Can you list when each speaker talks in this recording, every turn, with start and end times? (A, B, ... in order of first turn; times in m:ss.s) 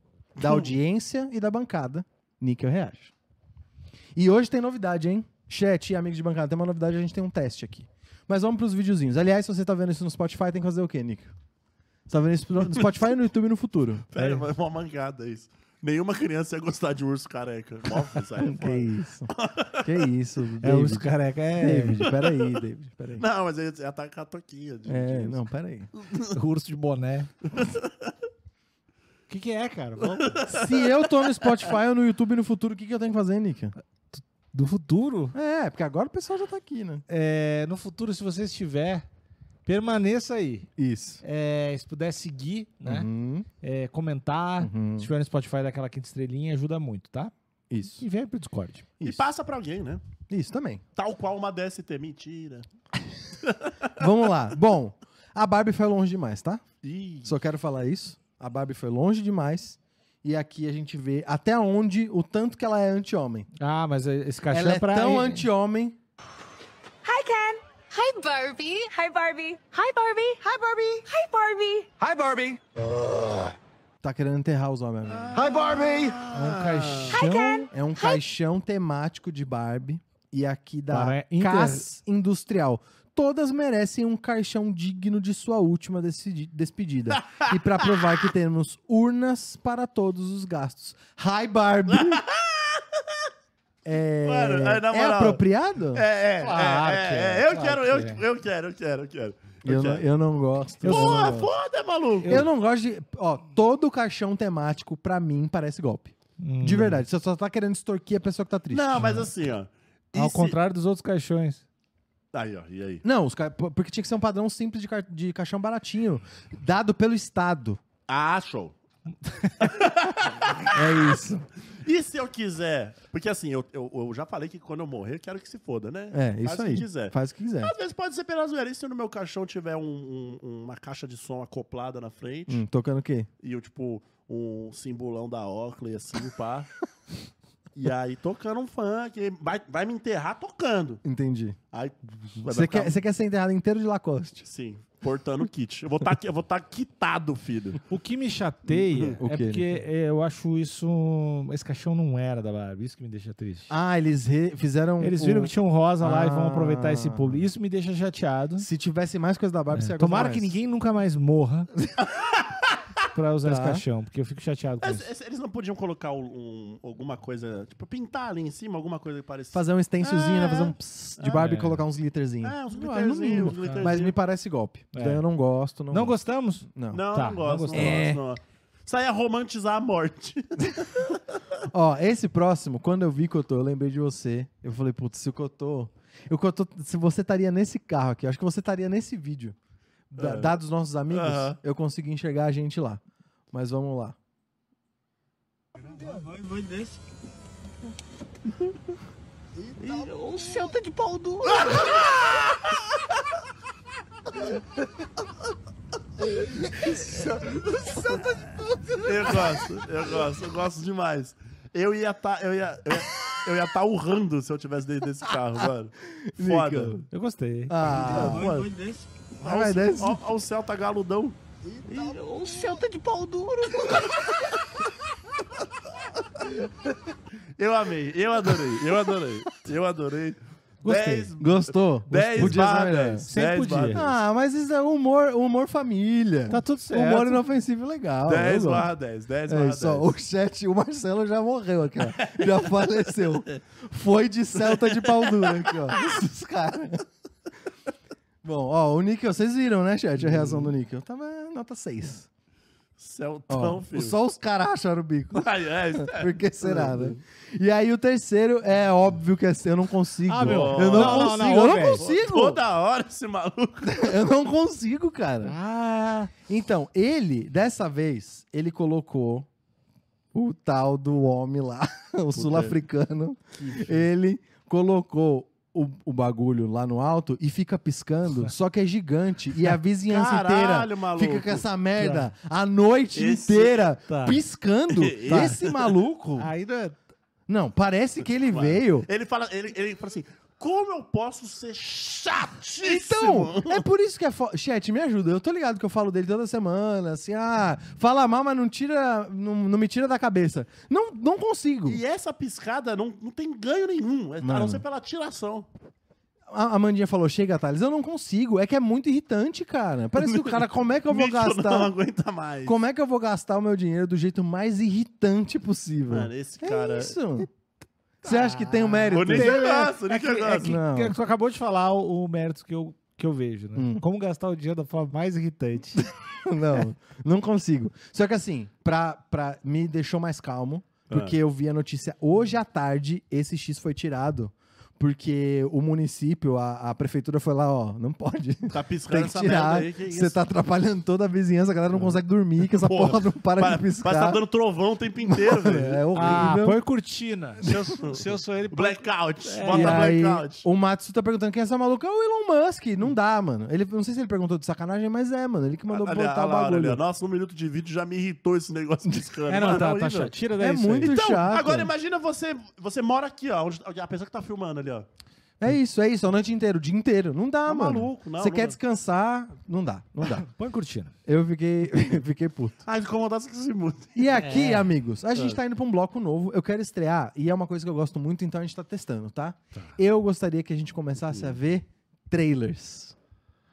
0:00.4-0:00.8 A
0:00.4-0:03.1 B
0:04.2-0:11.3 B
0:12.1-0:14.1 B
0:14.1-0:20.1 A
0:14.2-0:14.5 C
0:18.4-0:19.3 B
0:19.8-0:23.3 B
0:20.6-0:22.0 C
0:22.0-0:22.6 A
0:23.2-0:25.4 A
0:24.9-0:25.9 B
0:26.0-0:26.3 A
0:26.3-0:27.3 C
0:27.5-0:28.1 A
0:29.3-0:30.4 C
0:30.1-0:31.6 A
0:30.5-0:33.8 B
0:34.1-0:35.3 C
0:35.3-0:37.0 B
0:37.1-0:39.0 C
0:39.6-0:40.7 C
0:40.8-0:41.2 B
0:41.2-0:43.1 C
0:42.8-0:43.5 B
0:43.6-0:47.3 C
0:44.6-0:45.1 B
0:47.7-0:48.0 B
0:47.9-0:48.9 C
0:49.0-0:50.0 A
0:50.3-0:50.8 B
0:51.0-0:52.7 A
0:53.4-0:53.9 A
0:54.0-0:56.6 B
0:56.8-0:57.4 A
0:57.2-1:03.5 B
1:03.6-1:05.4 C
1:04.5-1:06.0 B
1:07.0-1:11.9 D
1:12.0-1:12.6 E
1:14.0-1:15.4 B
1:15.1-1:17.2 A
1:16.3-1:17.7 C
1:17.1-1:18.2 D
1:17.7-1:32.2 B
1:20.9-1:21.8 C
1:31.9-1:33.3 A
1:33.8-1:36.0 B
1:34.2-1:40.1 A
1:36.4-1:38.2 C
1:39.6-1:41.5 B
1:40.8-1:41.4 C
1:40.9-1:42.5 A
1:42.2-1:42.5 C
1:42.2-1:49.1 B
1:46.4-1:47.0 C
1:48.7-1:50.6 A
1:49.0-1:49.3 C
1:50.1-1:51.6 C
1:52.3-1:53.0 A
1:53.0-1:57.8 B
1:58.1-1:58.8 A
1:59.2-1:59.7 C
1:59.6-2:01.2 A
2:00.7-2:01.5 B
2:01.8-2:12.6 A
2:06.1-2:07.7 B
2:12.5-2:13.3 B
2:13.4-2:16.7 A
2:17.8-2:21.0 A
2:21.0-2:21.6 B
2:21.7-2:23.0 A
2:22.5-2:24.5 B
2:24.4-2:27.8 A
2:27.9-2:33.7 C
2:28.8-2:29.2 A
2:29.2-2:29.8 B
2:33.7-2:37.5 B
2:35.0-2:38.7 C
2:38.6-2:40.6 B
2:39.7-2:41.7 C
2:42.1-2:42.8 A
2:43.2-2:45.1 C
2:43.4-2:43.8 B
2:44.8-2:51.4 A
2:49.5-2:56.2 B
2:51.3-2:51.9 C
2:52.4-2:54.2 A
2:53.4-2:54.0 C
2:54.9-2:55.2 C
2:55.9-2:58.1 C
2:56.7-2:57.0 B
2:56.9-3:01.4 A
2:57.7-2:58.2 B
3:01.7-3:09.6 B
3:10.1-3:14.2 B
3:10.2-3:11.6 A
3:19.8-3:20.2 A
3:20.2-3:21.8 E
3:21.4-3:22.7 A
3:27.0-3:27.3 B
3:27.9-3:28.5 B
3:29.0-3:37.0 A
3:36.1-3:37.0 B
3:37.1-3:38.7 C
3:37.7-3:38.6 B
3:38.1-3:38.7 A
3:39.4-3:42.6 A
3:39.4-3:40.2 B
3:42.1-3:44.0 E
3:43.7-3:44.5 A
3:47.4-3:54.2 A
3:50.8-3:51.3 C
3:51.4-3:53.3 B
3:52.1-3:52.7 C
3:53.3-3:54.0 C
3:53.9-3:58.9 B
3:56.5-3:57.4 C
3:58.3-4:00.1 A
3:59.5-4:07.1 B
4:02.1-4:03.5 A
4:04.6-4:06.2 A
4:08.4-4:12.3 B
4:10.2-4:10.8 A
4:13.0-4:14.2 A
4:13.5-4:15.4 B
4:15.3-4:17.2 A
4:16.0-4:22.6 B
4:20.2-4:22.0 C
4:20.4-4:24.2 A
4:23.8-4:25.6 B
4:25.4-4:26.3 C
4:26.5-4:29.5 B
4:30.3-4:46.5 B
4:32.3-4:32.8 A
4:33.5-4:34.1 A
4:40.1-4:41.7 A
4:42.0-4:42.3 C
4:43.1-4:43.9 A
4:44.1-4:44.4 C
4:44.9-4:45.9 A
4:46.4-4:47.0 C
4:47.5-4:49.1 B
4:48.2-4:53.8 A
4:52.8-5:02.0 B
5:01.8-5:05.7 A
5:04.4-5:04.8 B
5:06.5-5:11.9 B
5:10.2-5:12.8 A
5:12.6-5:17.5 B
5:16.1-5:17.3 A
5:18.2-5:19.6 B
5:18.3-5:26.1 C
5:19.1-5:20.8 A
5:20.6-5:21.2 B
5:23.8-5:24.0 B
5:26.3-5:44.4 B
5:31.1-5:31.3 A
5:38.7-5:40.4 A
5:42.7-5:46.4 A
5:45.3-5:46.8 B
5:46.1-5:50.1 C
5:48.0-5:50.6 A
5:49.7-5:57.0 B
5:55.9-6:00.3 A
5:59.4-6:01.1 C
6:00.6-6:01.9 B
6:01.0-6:05.1 A
6:05.6-6:10.5 B
6:07.6-6:08.8 A
6:10.2-6:11.1 C
6:11.2-6:12.8 B
6:12.8-6:14.4 A
6:14.1-6:23.1 B
6:14.4-6:15.0 C